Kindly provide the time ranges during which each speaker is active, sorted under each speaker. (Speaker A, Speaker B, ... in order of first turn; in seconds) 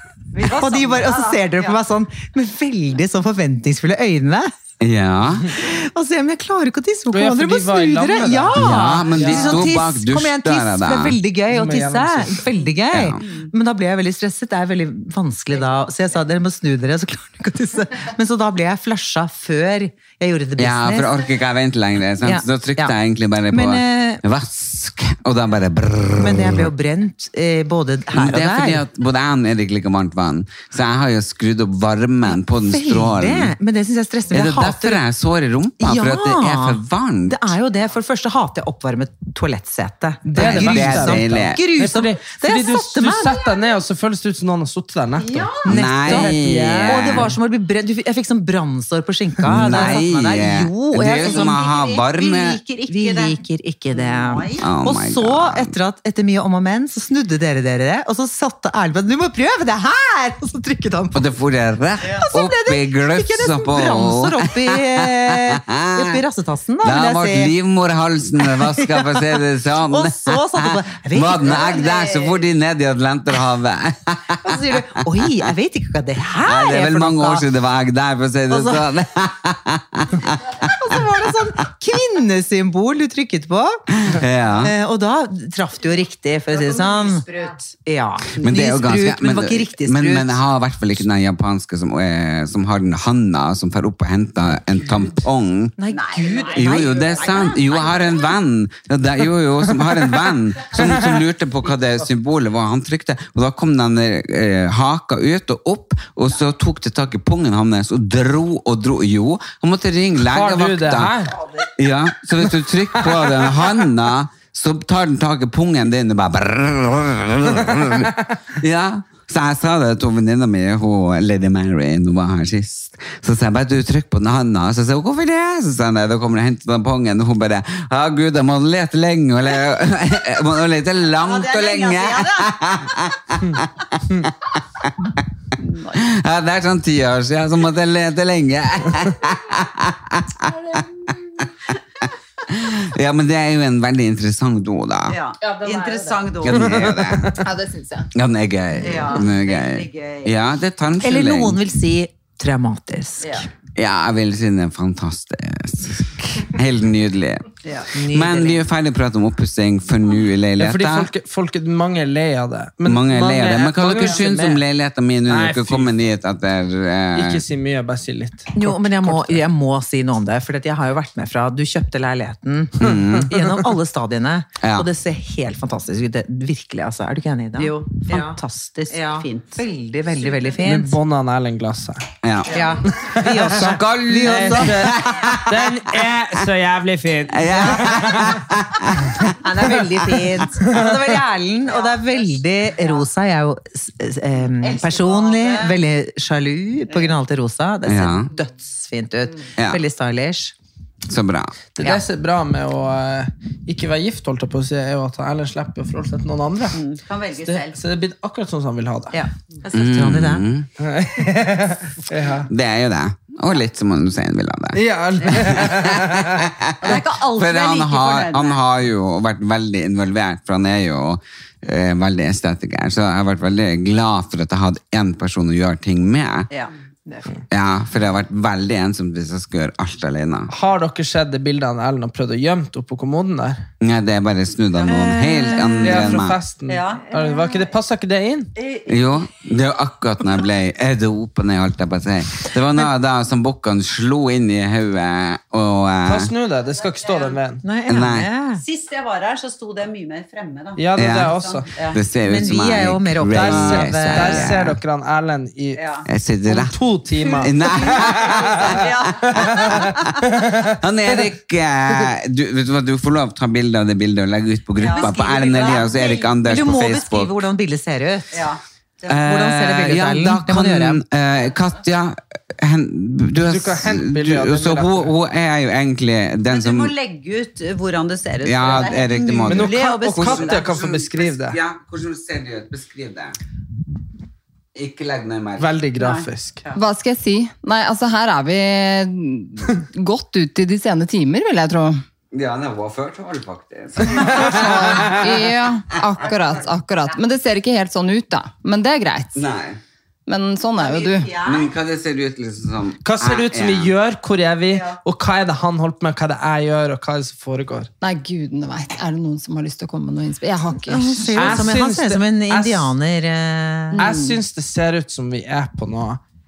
Speaker A: 0.3-1.8, 45.2-45.6, 51.0-53.4, 53.9-54.7, 71.4-72.4, 86.5-87.7, 95.9-98.1, 131.2-132.6, 135.6-136.0, 145.1-146.9, 148.8-150.3, 153.2-153.5, 157.6-157.9, 177.6-179.6, 191.6-193.1, 194.6-195.8, 206.7-207.8, 216.8-218.6, 234.9-235.9, 236.7-237.5, 238.6-239.0, 246.9-247.4, 248.6-252.0, 255.7-256.1, 257.2-260.1, 264.8-266.4, 268.3-269.2, 276.5-280.6, 286.0-286.8, 296.2-297.2, 300.8-301.7, 304.7-305.0, 313.9-314.4
Speaker B: 0.4-4.5, 5.5-21.1, 22.2-22.9, 23.5-24.2, 26.2-28.8, 32.3-35.0, 35.8-43.4, 45.6-51.6, 52.9-61.2, 62.1-67.5, 68.5-69.3, 69.9-71.6, 74.4-77.5, 78.5-78.9, 80.6-83.8, 84.6-87.2, 87.8-90.4, 95.8-97.4, 151.0-153.4, 157.9-158.6, 168.6-181.0, 182.5-185.0, 189.4-200.5, 209.6-210.5, 247.6-248.6, 252.2-254.5, 266.4-268.4, 269.1-271.0, 310.8-314.0
Speaker C: 4.8-5.5, 8.6-11.2, 12.9-13.2, 20.6-26.7, 28.1-33.5, 34.3-37.5, 40.4-41.6, 45.6-47.3, 49.5-52.6, 54.6-55.7, 61.1-66.1, 66.8-75.2, 76.4-81.2, 84.0-84.7, 88.4-95.8, 96.5-135.2, 135.9-141.1, 142.5-145.2, 146.4-147.4, 148.2-151.6, 153.8-157.5, 158.1-161.1, 162.9-167.4, 172.8-173.3, 174.6-174.9, 182.2-182.8, 183.5-185.8, 187.3-189.3, 197.9-198.3, 199.6-199.8, 201.1-201.5, 209.7-210.7, 212.5-226.5, 227.5-230.5, 233.8-236.4, 238.9-246.3, 247.9-248.3, 251.0-254.8, 256.1-256.8, 257.4-267.4, 269.1-276.9, 278.4-283.4, 284.8-285.7, 292.3-295.5, 299.4-299.8, 301.4-303.9
Speaker D: 7.1-9.7, 11.5-12.4, 40.2-47.3, 100.8-101.2, 110.3-111.3, 113.0-113.5, 146.6-147.4, 160.6-164.6, 165.3-165.9, 167.1-169.4, 172.8-173.5, 180.6-182.0, 183.1-188.4, 190.7-191.0, 201.8-206.8, 207.4-209.2, 210.8-212.5, 214.7-216.4, 230.5-233.6, 235.8-238.5, 246.1-247.6, 250.8-251.7, 253.3-255.8, 256.5-260.8, 273.4-275.1, 279.5-281.6, 285.6-286.6, 294.3-295.1, 303.0-307.9, 311.4-312.9, 314.0-316.2
Speaker E: 145.4-146.3, 147.4-148.1, 286.8-292.0, 294.5-299.4, 300.3-301.4, 308.0-311.7